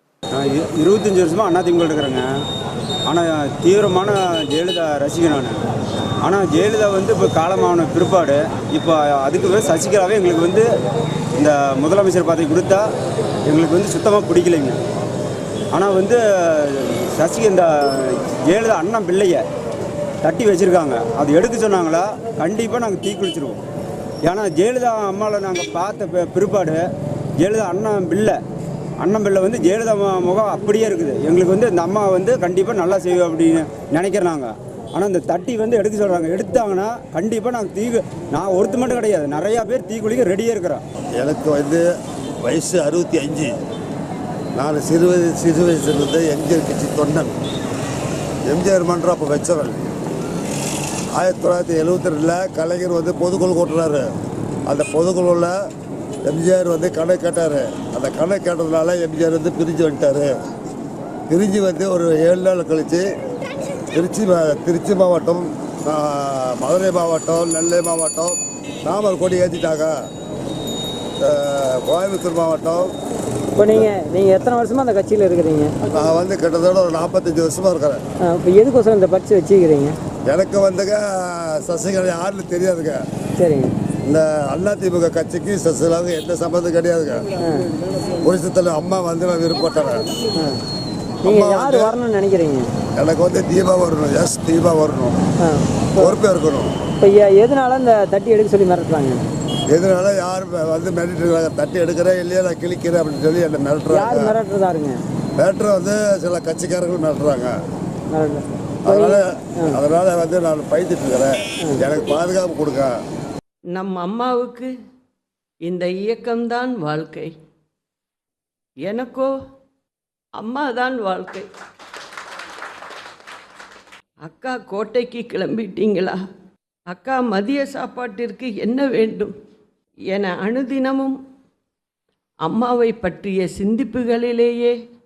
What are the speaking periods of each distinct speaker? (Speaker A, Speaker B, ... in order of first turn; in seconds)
Speaker A: 0.3-2.3, 3.1-5.7, 6.2-10.7, 11.4-12.9, 13.5-14.8, 15.7-19.4, 20.2-23.6, 24.2-26.9, 27.4-28.4, 29.0-40.8
Speaker B: 41.2-41.9, 42.4-43.5, 44.5-47.4, 48.5-49.9, 51.2-54.1, 54.7-55.5, 56.3-60.3, 61.3-63.1, 63.9-70.0, 71.2-72.9, 75.9-78.0, 80.3-83.0, 84.1-87.3, 88.2-90.1, 91.2-91.9, 93.0-95.2, 96.0-96.7, 99.7-104.3, 105.4-107.5, 108.8-112.9
Speaker C: 73.6-75.7, 78.2-80.0, 83.4-83.7, 87.4-87.7, 91.2-92.7, 95.4-96.2, 97.0-99.2, 103.9-105.0, 108.1-109.8
Speaker D: 113.7-114.7, 115.7-117.3, 118.8-119.3, 120.4-121.5, 124.2-126.2, 126.9-129.3, 130.1-131.2, 132.4-134.8